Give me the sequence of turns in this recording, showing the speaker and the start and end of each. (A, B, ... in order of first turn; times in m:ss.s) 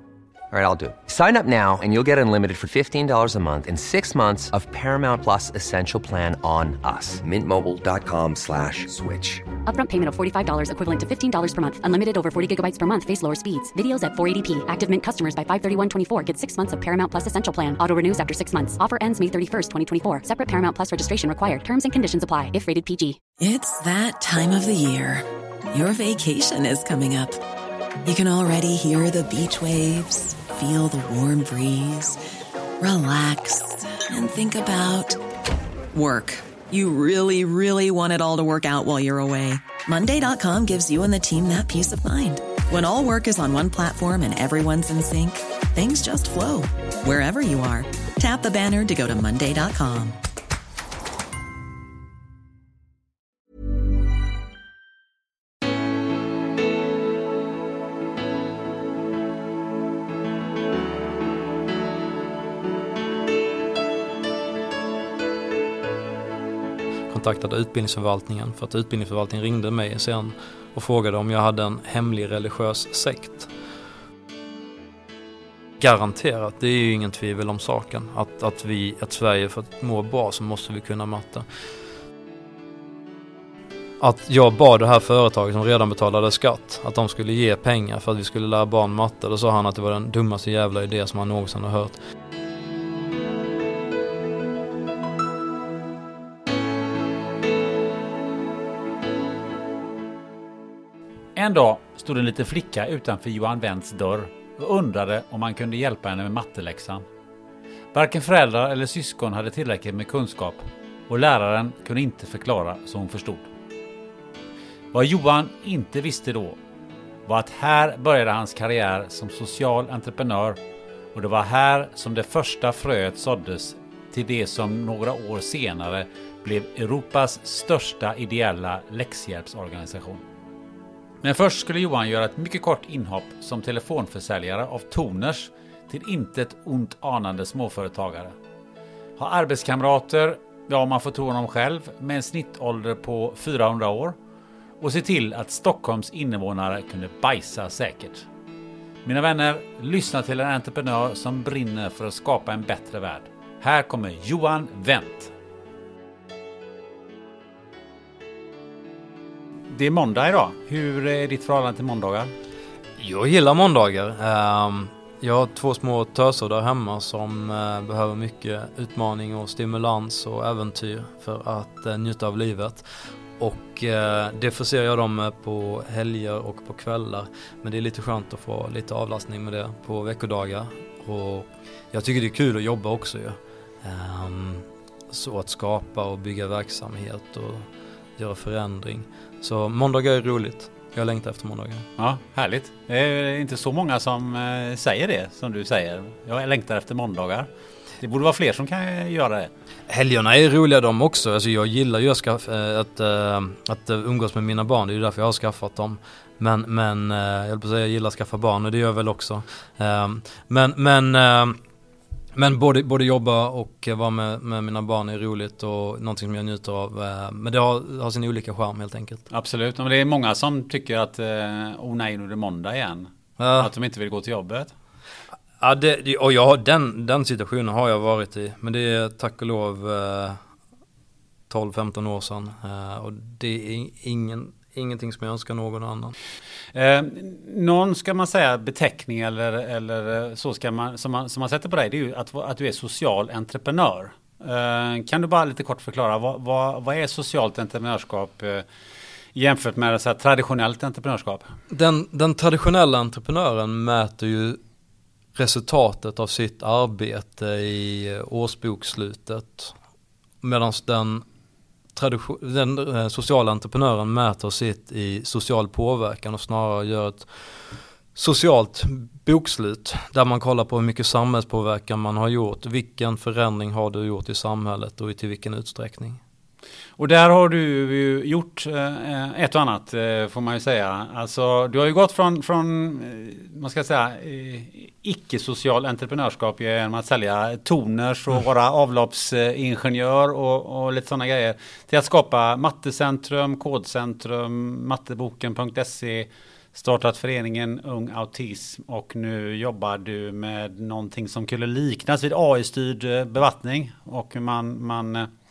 0:00.5-0:09.4 A
0:09.7-0:23.2 B
0:23.4-0:27.4 C
0:28.1-0:32.2 C
0:32.8-0:35.2 C
0:35.9-0:50.2 C
1:07.1-1:13.5 D
1:15.8-1:21.4 D
1:24.0-1:32.0 D
1:41.4-1:47.1 E
1:47.9-1:53.5 E
1:54.9-1:56.6 E
1:57.3-2:00.6 E
2:01.1-2:10.2 E
2:11.2-2:18.4 E
2:19.2-2:24.2 E
2:24.8-2:28.3 E
2:29.0-2:35.3 E
2:39.7-2:42.3 E
2:43.0-2:52.8 D
2:53.4-3:11.9 D
3:12.0-3:17.5 E
3:18.0-3:19.5 E
3:19.9-3:31.6 D
3:32.4-3:39.2 D
3:39.3-3:44.7 E
3:43.4-3:43.7 D
3:45.6-3:50.4 D
3:51.5-3:56.1 D
3:56.7-4:08.7 E
4:09.3-4:11.5 E
4:11.7-4:14.6 D
4:15.4-4:19.8 D
4:20.4-4:21.2 D
4:22.0-4:27.3 D
4:28.2-4:36.2 D
4:37.0-5:05.3 E